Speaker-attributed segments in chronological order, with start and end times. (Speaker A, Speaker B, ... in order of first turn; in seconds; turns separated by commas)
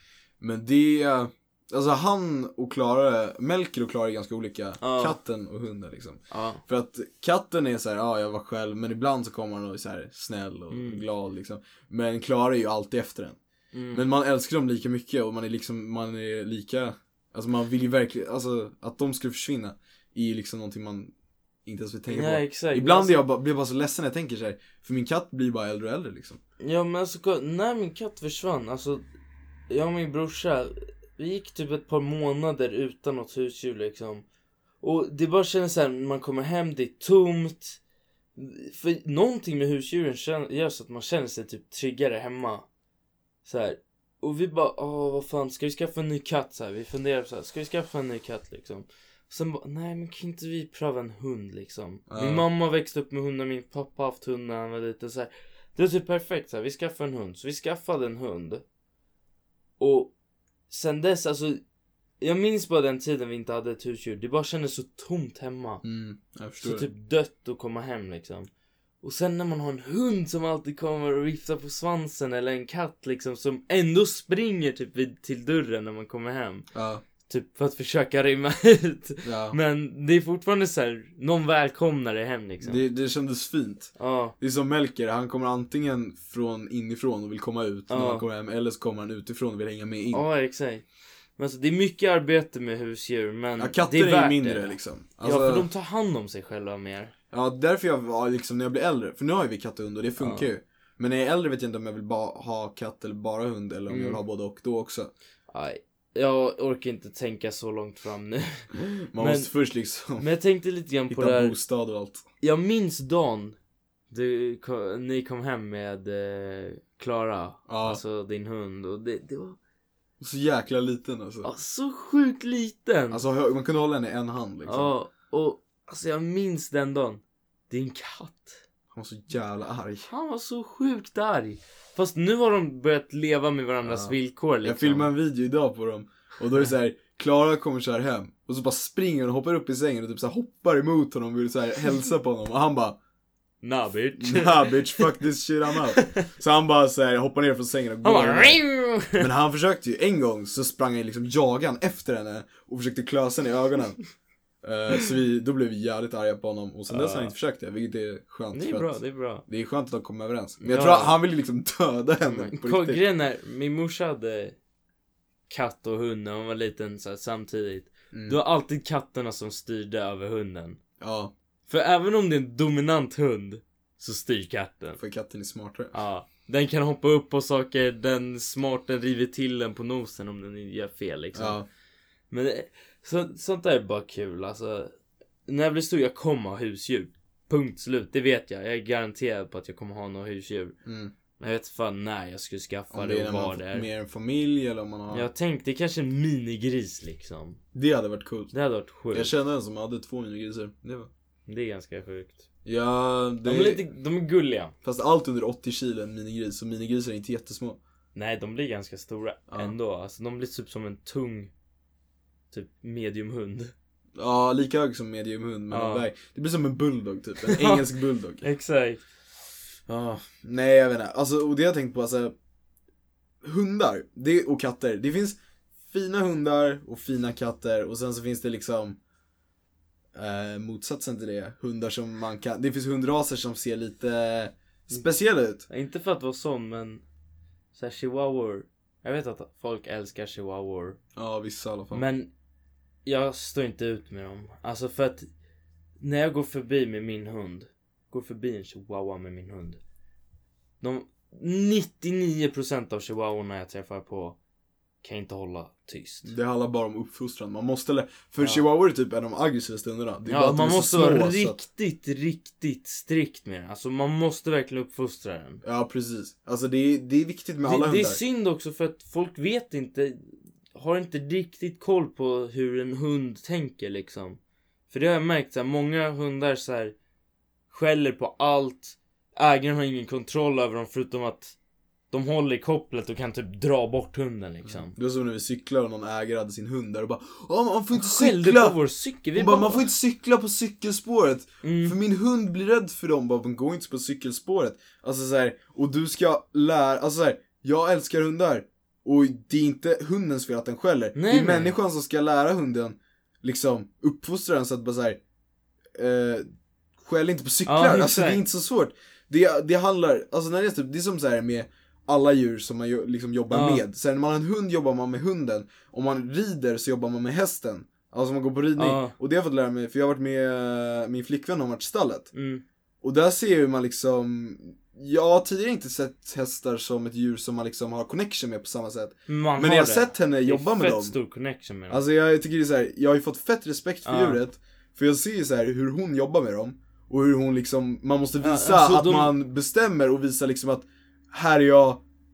Speaker A: 0.4-13.4, Speaker B: 4.8-5.2, Speaker B: 6.3-6.6, Speaker B: 10.7-11.0, Speaker B: 13.7-14.0, Speaker A: 13.9-21.1, Speaker A: 21.7-26.4, Speaker B: 22.1-23.2, Speaker B: 26.6-29.1, Speaker B: 29.7-34.2, Speaker B: 34.8-37.8, Speaker B: 38.4-42.7, Speaker B: 43.5-58.6, Speaker A: 52.1-52.5, Speaker B: 59.8-60.1, Speaker B: 60.7-61.6, Speaker B: 62.2-65.8, Speaker A: 65.8-66.9, Speaker B: 66.6-68.5, Speaker B: 69.0-76.7, Speaker A: 76.7-77.0, Speaker B: 77.3-82.8, Speaker A: 79.2-79.6, Speaker A: 82.6-90.2, Speaker B: 84.0-84.3, Speaker B: 87.9-88.2, Speaker B: 90.1-90.9, Speaker B: 91.4-97.1, Speaker A: 93.6-95.7, Speaker A: 97.3-105.1, Speaker B: 100.2-100.5, Speaker B: 103.9-104.2, Speaker B: 105.5-109.5, Speaker A: 108.7-110.2, Speaker B: 110.2-111.6, Speaker A: 111.1-112.2, Speaker B: 112.4-113.6, Speaker B: 114.1-119.6, Speaker A: 117.7-118.0, Speaker A: 120.2-121.5, Speaker B: 121.4-123.2, Speaker A: 123.1-124.9, Speaker B: 124.7-128.6, Speaker A: 128.9-130.1, Speaker B: 130.1-135.1, Speaker A: 133.8-143.0, Speaker B: 143.6-145.0, Speaker A: 144.2-154.0, Speaker B: 145.9-146.2, Speaker B: 148.0-149.3, Speaker A: 154.6-163.0, Speaker B: 156.9-157.3, Speaker B: 158.5-159.4, Speaker B: 160.6-161.2, Speaker B: 162.2-164.6, Speaker B: 165.5-170.8, Speaker A: 168.1-168.4, Speaker A: 171.0-171.3, Speaker B: 171.7-175.0, Speaker A: 175.0-175.9, Speaker B: 175.9-181.6, Speaker A: 181.3-181.7, Speaker B: 182.3-184.9, Speaker B: 185.5-190.8, Speaker A: 190.8-191.1, Speaker B: 191.4-193.9, Speaker A: 192.9-195.3, Speaker B: 195.1-197.6, Speaker A: 197.7-198.5, Speaker B: 198.5-199.3, Speaker A: 199.1-201.1, Speaker B: 201.5-202.4, Speaker A: 202.7-203.8, Speaker B: 203.4-204.7, Speaker A: 204.8-207.8, Speaker B: 208.1-211.5, Speaker A: 209.5-209.7, Speaker B: 212.5-213.7, Speaker A: 214.2-218.5, Speaker B: 215.7-216.1, Speaker B: 217.4-217.9, Speaker B: 218.4-219.0, Speaker A: 219.9-222.3, Speaker A: 223.4-225.4, Speaker A: 225.9-229.0, Speaker A: 230.2-235.7, Speaker B: 235.7-237.0, Speaker B: 237.7-241.0, Speaker A: 241.2-242.1, Speaker B: 241.9-242.3, Speaker B: 243.1-245.3, Speaker B: 246.0-249.8, Speaker B: 250.8-254.4, Speaker B: 255.0-256.3, Speaker A: 256.2-261.6, Speaker B: 260.3-265.6, Speaker A: 265.6-268.2, Speaker B: 267.6-276.9, Speaker B: 277.7-281.6, Speaker B: 282.1-284.9, Speaker A: 284.7-288.8, Speaker B: 287.9-289.9, Speaker A: 289.4-305.2, Speaker B: 291.6-292.0, Speaker B: 301.1-301.8, Speaker A: 306.0-306.5, Speaker A: 307.0-322.3, Speaker B: 307.7-308.4, Speaker B: 313.5-313.8, Speaker B: 318.8-319.1, Speaker B: 322.3-322.6, Speaker A: 323.0-331.1, Speaker B: 329.3-332.0, Speaker A: 331.9-342.0, Speaker B: 334.1-334.4, Speaker B: 338.4-339.3